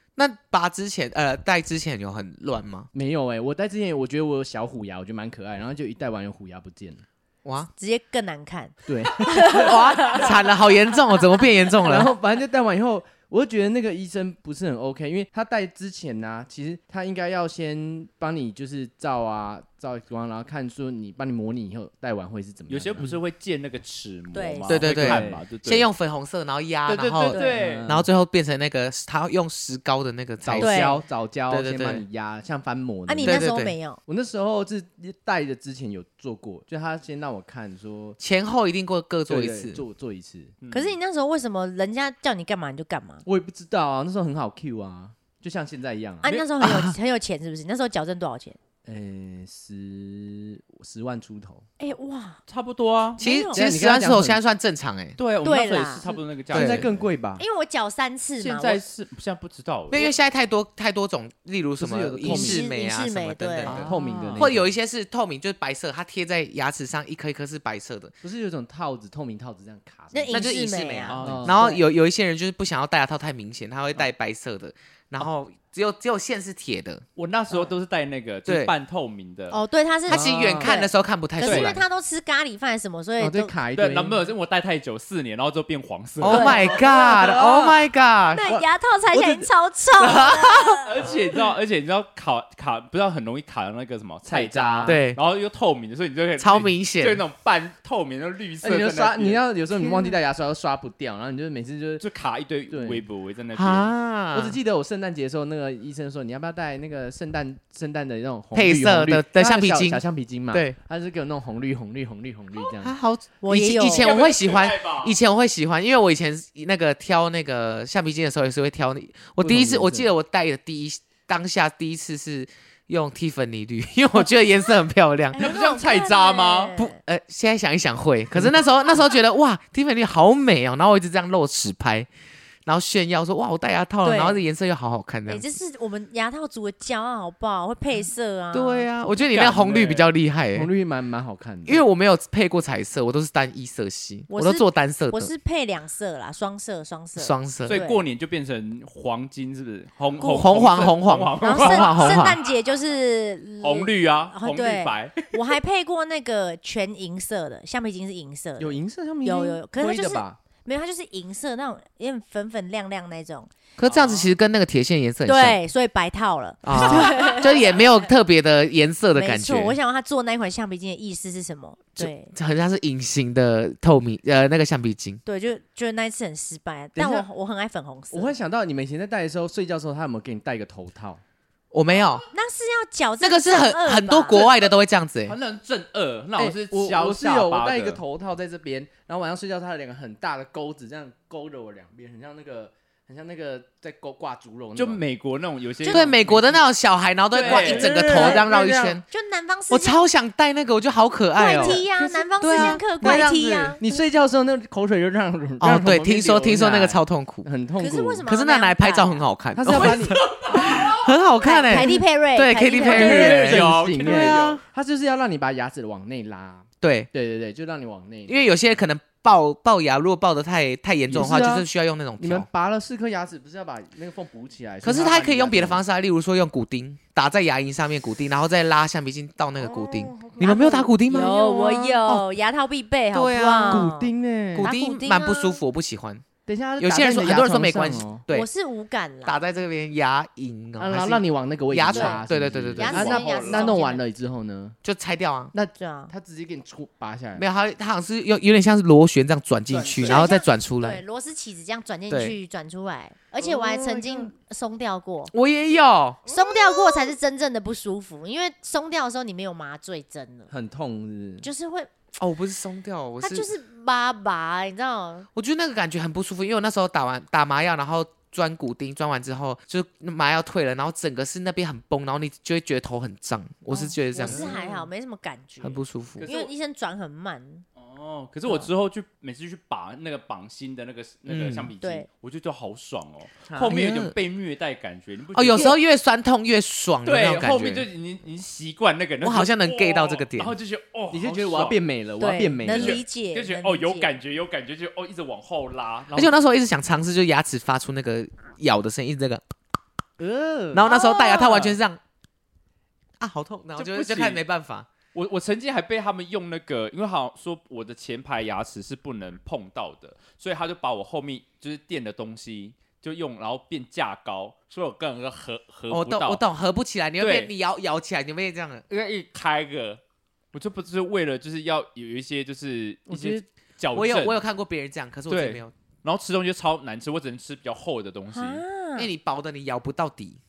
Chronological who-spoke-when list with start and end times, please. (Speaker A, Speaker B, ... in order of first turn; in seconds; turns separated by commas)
Speaker A: 0.2-2.9, Speaker B: 2.9-7.0, Speaker A: 7.5-7.7, Speaker C: 7.8-10.3, Speaker B: 8.9-9.8, Speaker A: 9.5-12.1, Speaker B: 11.8-23.2, Speaker D: 22.7-25.9, Speaker C: 24.3-24.9, Speaker A: 24.7-31.0, Speaker B: 24.8-25.4, Speaker D: 26.9-27.9, Speaker C: 27.3-27.7, Speaker B: 27.5-28.1, Speaker B: 30.4-38.2, Speaker C: 30.6-31.0, Speaker A: 31.5-32.0, Speaker C: 33.1-34.0, Speaker A: 33.2-33.8, Speaker A: 38.2-39.8, Speaker B: 39.3-40.5, Speaker D: 40.6-41.0, Speaker C: 40.7-43.2, Speaker B: 43.2-46.4, Speaker C: 46.2-48.6, Speaker A: 46.6-47.0, Speaker B: 48.9-51.6, Speaker C: 51.8-52.4, Speaker D: 52.5-53.2, Speaker C: 53.2-53.6, Speaker A: 53.2-55.2, Speaker B: 53.5-54.4, Speaker D: 55.2-57.1, Speaker C: 55.4-56.0, Speaker B: 56.1-57.4, Speaker A: 56.5-56.9, Speaker C: 57.4-58.8, Speaker D: 58.4-60.1, Speaker A: 59.9-68.2, Speaker B: 61.8-62.7, Speaker C: 62.2-63.8, Speaker D: 63.7-64.5, Speaker B: 63.7-64.7, Speaker B: 68.2-70.5, Speaker C: 70.1-71.8, Speaker A: 70.3-77.0, Speaker D: 71.1-71.6, Speaker B: 71.2-71.6, Speaker D: 77.2-79.6, Speaker A: 78.5-78.7, Speaker C: 79.5-83.5, Speaker A: 80.1-81.8, Speaker B: 80.1-80.7, Speaker D: 81.4-81.7, Speaker B: 83.2-84.3, Speaker D: 83.8-86.7, Speaker A: 86.2-88.4, Speaker C: 86.3-86.9, Speaker B: 86.7-87.8, Speaker C: 88.3-90.9, Speaker B: 88.4-89.5, Speaker A: 90.0-90.8, Speaker D: 90.8-99.4, Speaker B: 94.3-95.0, Speaker A: 94.9-95.2, Speaker A: 96.4-97.2, Speaker B: 98.6-102.0, Speaker D: 102.0-103.9, Speaker B: 102.7-103.0, Speaker A: 103.5-104.6, Speaker B: 104.3-113.0, Speaker A: 108.5-110.8, Speaker A: 112.8-125.5, Speaker C: 113.4-114.2, Speaker D: 113.9-115.2, Speaker B: 119.4-120.1, Speaker C: 125.3-127.0, Speaker D: 125.4-126.8, Speaker A: 126.8-132.1, Speaker A: 132.7-135.5, Speaker C: 134.0-134.4, Speaker C: 135.3-138.9, Speaker A: 138.5-140.7, Speaker D: 139.1-140.1, Speaker B: 140.5-141.8, Speaker A: 141.7-145.3, Speaker C: 144.3-148.0, Speaker A: 147.2-147.8, Speaker D: 147.7-152.3, Speaker A: 150.2-152.4, Speaker C: 151.4-163.5, Speaker D: 153.6-155.3, Speaker B: 158.6-160.4, Speaker A: 163.8-165.6, Speaker D: 163.8-164.3, Speaker C: 165.2-167.8, Speaker A: 166.6-169.8, Speaker C: 169.2-172.3, Speaker A: 172.0-175.2, Speaker C: 175.2-178.3, Speaker B: 177.0-177.3, Speaker B: 178.1-181.2, Speaker A: 181.7-182.3, Speaker C: 182.3-184.5, Speaker A: 183.2-185.4, Speaker D: 185.3-188.0, Speaker B: 186.4-195.0, Speaker D: 194.8-196.6, Speaker C: 195.8-196.2, Speaker A: 195.9-199.1, Speaker D: 197.3-198.3, Speaker B: 197.4-199.0, Speaker C: 198.0-198.4, Speaker C: 199.1-200.0, Speaker A: 199.7-201.8, Speaker C: 201.3-203.8, Speaker B: 201.4-203.3, Speaker A: 202.4-203.8, Speaker B: 203.8-208.3, Speaker A: 205.6-207.5, Speaker C: 207.8-209.3, Speaker A: 208.2-214.6, Speaker B: 209.6-210.2, Speaker D: 209.7-211.1, Speaker C: 211.4-213.3, Speaker B: 212.8-218.5, Speaker D: 212.8-214.6, Speaker A: 216.8-217.1, Speaker A: 218.3-222.5, Speaker B: 221.1-225.8, Speaker A: 224.8-231.3, Speaker B: 229.6-232.0, Speaker C: 231.1-235.6, Speaker A: 233.1-233.9, Speaker B: 233.7-234.7, Speaker A: 234.6-236.2, Speaker B: 236.5-238.2, Speaker A: 236.8-238.5, Speaker C: 238.3-239.4, Speaker A: 239.2-243.2, Speaker B: 240.8-244.8, Speaker C: 241.9-242.2, Speaker C: 242.8-244.0, Speaker D: 242.8-243.8, Speaker A: 244.8-245.5, Speaker B: 245.5-247.4, Speaker C: 245.8-246.1, Speaker A: 247.4-251.0, Speaker B: 249.7-250.3, Speaker C: 250.0-255.3, Speaker A: 252.1-252.4, Speaker B: 253.4-254.3, Speaker A: 255.3-256.3, Speaker C: 256.3-260.5, Speaker B: 260.5-261.5, Speaker C: 261.4-261.9, Speaker A: 262.2-263.5, Speaker C: 263.2-265.3, Speaker A: 265.3-274.6, Speaker C: 273.7-277.6, Speaker B: 274.2-274.8, Speaker A: 275.6-276.3, Speaker D: 276.2-276.5, Speaker D: 277.8-285.8, Speaker A: 281.3-281.7, Speaker C: 281.8-282.1, Speaker B: 283.5-283.9, Speaker A: 283.6-284.1, Speaker A: 285.3-287.9, Speaker D: 287.0-291.8, Speaker A: 289.2-290.5, Speaker B: 291.1-293.0, Speaker C: 292.2-294.1, Speaker D: 292.7-296.3, Speaker A: 296.1-299.4, Speaker B: 300.2-300.9, Speaker A: 300.7-302.0, Speaker C: 300.9-301.6, Speaker D: 301.5-301.8, Speaker A: 303.2-304.9, Speaker D: 303.8-304.4, Speaker D: 305.1-316.4, Speaker A: 315.9-318.8, Speaker D: 317.2-317.5, Speaker D: 318.9-320.0, Speaker D: 320.5-324.4, Speaker B: 323.1-323.4, Speaker A: 323.9-325.7, Speaker D: 325.3-328.6, Speaker C: 328.3-329.1, Speaker A: 329.0-330.4